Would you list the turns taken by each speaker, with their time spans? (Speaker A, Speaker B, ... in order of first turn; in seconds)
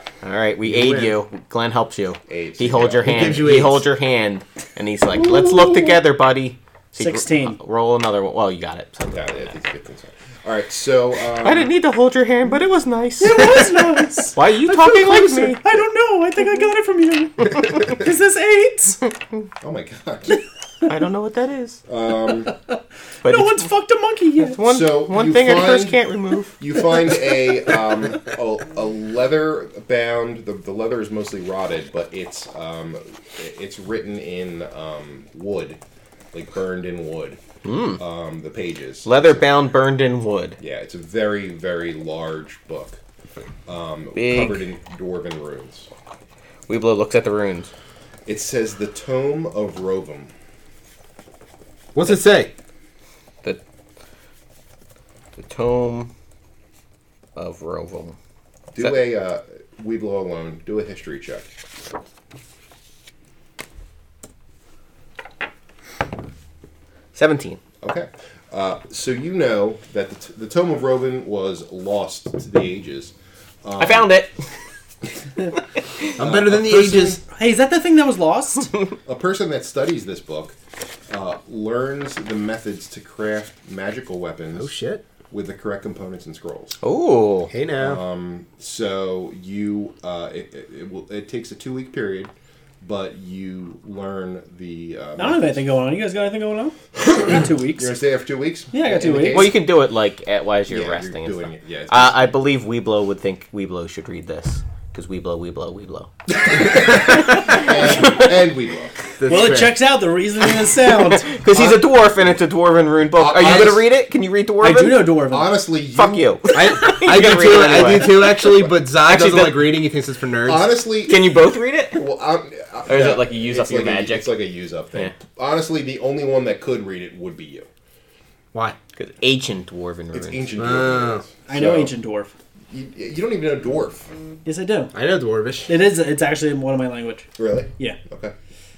Speaker A: 0.2-9.5, 11.4-15.6, 20.9-21.8, 23.2-23.7, 24.4-26.6, 37.6-38.0, 39.0-40.6, 44.1-44.6, 46.7-47.7, 55.4-56.1, 57.4-58.2, 67.1-67.6, 73.8-74.4, 86.8-87.5, 99.3-106.1, 106.7-108.3, 111.0-115.2, 115.9-119.8, 121.0-122.0, 122.9-124.3, 128.9-130.6
Speaker B: 0.7-1.1, 3.0-3.9, 51.9-52.5, 76.2-77.2, 84.6-85.0, 87.5-88.0, 109.2-109.8, 116.5-120.7, 130.6-131.3, 134.9-135.7
Speaker C: 2.3-3.5, 9.1-11.7, 19.6-20.4, 21.9-22.5, 24.6-26.0, 26.6-35.8, 36.3-37.4, 38.0-39.5, 40.6-43.0, 43.6-45.9, 48.2-50.3, 58.7-61.5, 67.8-73.1, 73.6-74.1, 76.2-77.2, 79.1-80.6, 81.1-84.7, 85.3-86.8, 87.8-95.6, 97.0-99.6, 100.7-102.3, 106.4-109.0, 111.5-111.8, 113.2-113.9, 115.3-116.4, 120.4-121.4, 121.9-127.7, 130.1-131.9, 132.7-134.1, 137.4-138.3
Speaker D: 7.0-7.6, 13.2-19.0, 23.2-24.6, 77.2-78.9, 95.2-97.9, 98.7-99.5, 109.2-111.3, 114.6-115.6, 131.4-132.3, 134.4-134.9, 135.7-138.0